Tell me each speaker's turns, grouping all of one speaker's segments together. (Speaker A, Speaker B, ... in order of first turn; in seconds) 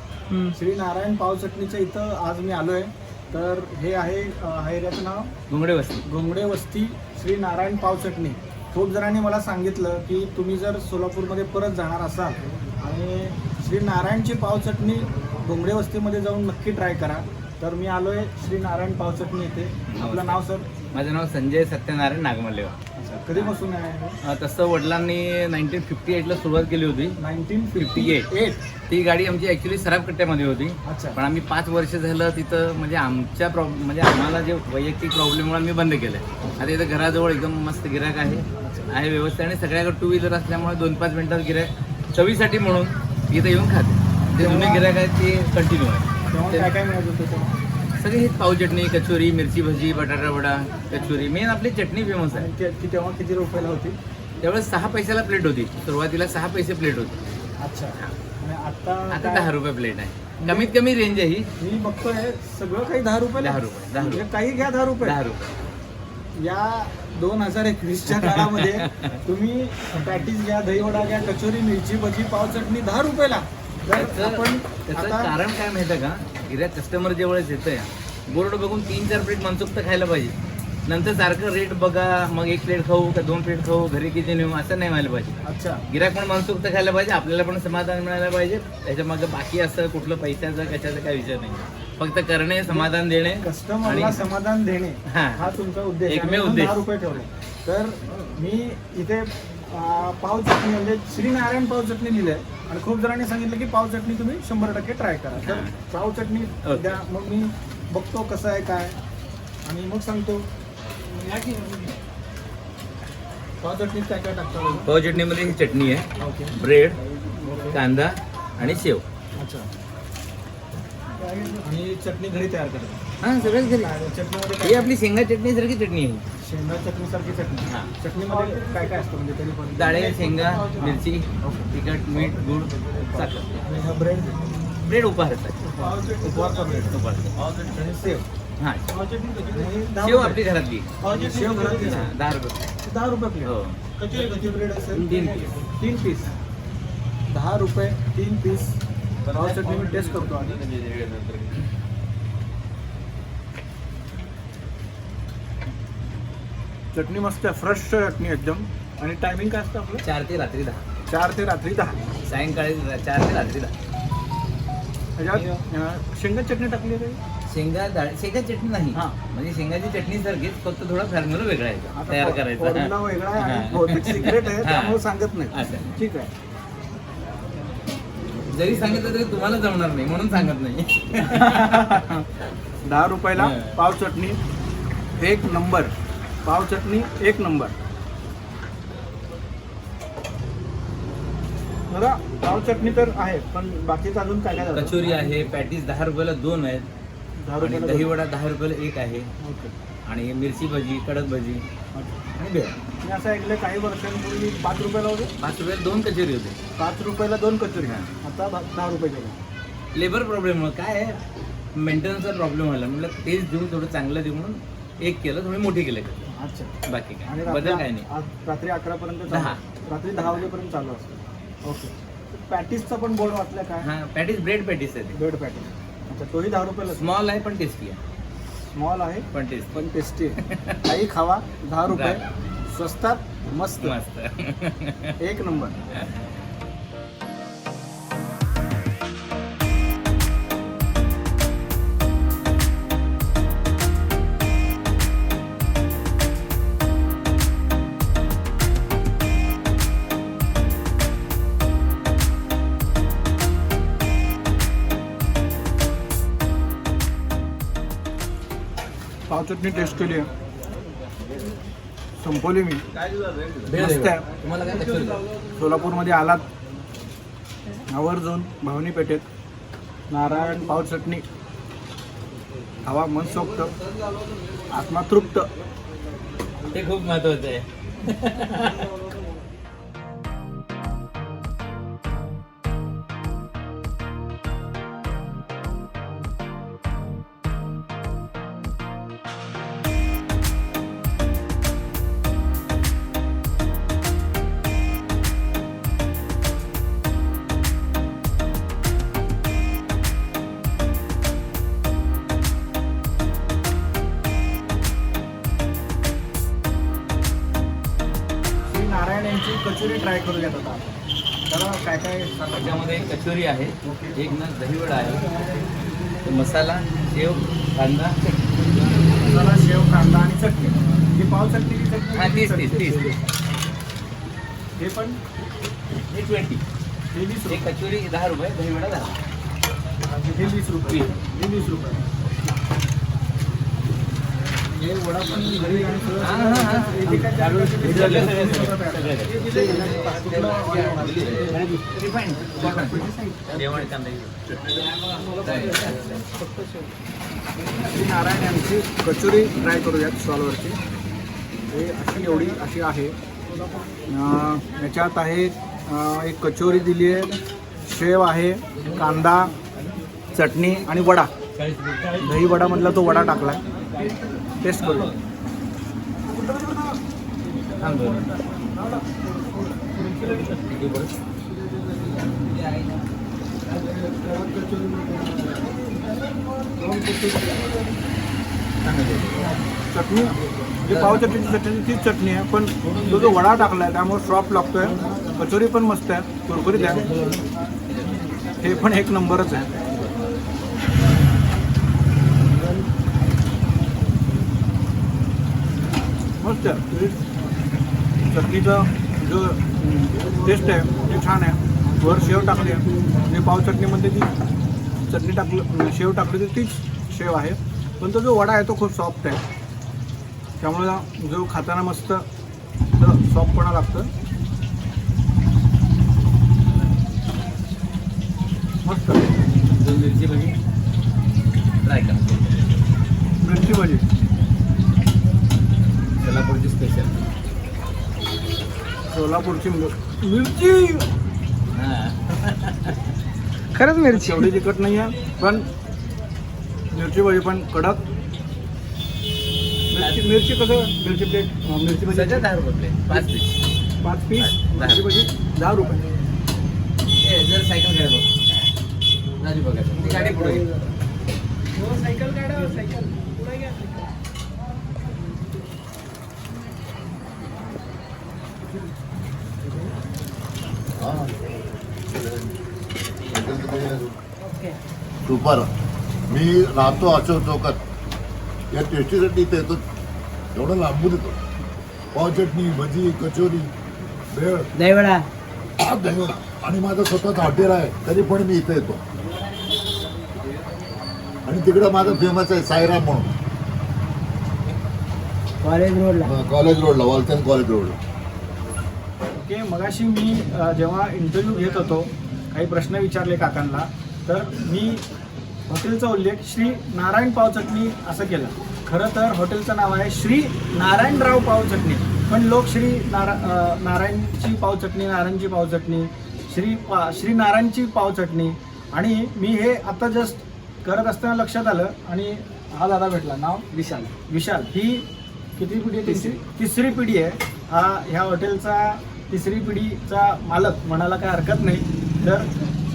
Speaker A: 0.5-5.3, 6.0-20.7, 23.0-24.2, 27.2-28.6, 30.8-31.2, 38.6-38.9, 44.3-44.9, 46.3-47.6, 50.9-51.2, 52.3-54.0, 57.6-59.5, 60.4-60.7, 61.6-65.2, 66.3-75.3, 85.4-85.8, 93.4-109.0, 109.6-110.5, 113.6-114.9, 116.2-116.5, 117.1-117.8, 119.3-119.7, 121.2-124.9, 126.4-131.7, 133.6-134.5, 135.7-137.0, 137.6-138.2, 139.0-140.4, 141.0-142.1, 142.8-146.3, 147.3-150.6, 156.9-160.0, 161.1-162.0, 165.2-167.2, 171.9-176.3, 181.2-182.2, 182.8-184.4, 185.2-185.9, 186.4-187.7, 191.9-195.2, 197.4-198.1, 199.4-199.7, 201.9-202.3, 203.0-205.3, 206.8-209.4, 216.3-223.9, 225.1-227.1, 228.7-233.9, 235.2-235.8, 259.3-260.3, 262.2-262.8, 263.7-264.2, 265.5-266.4, 267.9-269.2, 270.1-271.2, 272.8-273.7, 274.7-275.5, 308.7-312.9, 313.8-314.3, 319.2-323.2, 324.8-325.2, 327.1-327.7, 330.1-332.0, 334.7-341.8, 342.6-342.9, 347.7-350.8, 351.7-353.1, 354.1-359.5, 360.3-361.3, 362.2-363.6, 364.6-365.1, 367.9-369.0, 369.8-370.5, 373.7-375.9, 376.7-377.7, 379.9-387.1, 388.6-389.7, 396.4-397.2, 398.3-404.3, 405.1-409.4, 410.6-412.2, 413.0-414.1, 418.8-419.2, 423.4-424.0, 429.1-431.0, 434.1-435.7, 436.9-438.0, 439.9-442.4, 444.0-446.0, 489.4-495.0, 495.7-513.7, 514.2-522.5
Speaker B: 5.5-6.0, 19.9-20.4, 20.9-22.8, 24.2-27.2, 27.8-28.3, 28.9-46.7, 48.0-52.5, 54.4-57.2, 59.1-61.5, 63.4-64.2, 65.0-65.5, 68.2-69.2, 73.9-94.2, 95.1-95.5, 96.1-96.8, 105.4-105.7, 106.6-107.0, 114.8-117.0, 117.7-119.0, 123.2-123.9, 124.6-126.2, 129.7-133.5, 134.8-137.4, 138.6-138.9, 140.0-140.9, 141.4-142.7, 143.4-143.8, 144.9-145.5, 149.3-151.5, 160.0-160.8, 162.2-163.7, 167.5-175.0, 175.5-175.9, 178.5-182.2, 183.3-183.8, 194.7-196.9, 197.6-199.3, 200.1-201.6, 202.4-202.7, 205.4-206.6, 207.8-208.1, 209.9-211.2, 211.7-216.3, 216.8-218.1, 219.3-219.6, 223.8-225.2, 226.9-228.0, 229.3-229.8, 230.4-230.8, 231.8-232.2, 233.8-235.2, 263.1-265.3, 276.7-279.0, 312.6-315.6, 316.2-318.4, 322.1-323.2, 326.1-326.6, 327.5-329.2, 336.2-337.2, 337.8-346.3, 361.5-362.6, 364.8-365.1, 367.8-368.3, 370.0-371.2, 378.8-379.6, 380.9-381.5, 382.9-383.3, 386.8-388.2, 389.7-390.1, 419.7-420.6, 421.8-422.7, 426.2-427.3, 431.7-433.1, 439.9-440.3, 442.1-443.6, 444.4-445.1, 447.2-448.4, 449.4-450.7
Speaker C: 139.5-139.9, 141.1-141.8, 144.9-145.3, 337.0-338.4, 339.3-341.8, 342.6-343.9, 345.2-346.9, 433.7-434.5, 450.0-450.7, 451.8-454.0, 474.7-475.3, 485.6-486.3, 513.7-514.1, 516.1-516.4
Speaker D: 461.0-461.4, 462.1-462.5, 463.2-464.1, 465.2-465.7, 466.3-467.8, 468.7-469.8, 470.5-471.4, 472.1-473.7, 474.3-474.7, 475.8-479.0, 481.4-483.3, 486.2-488.0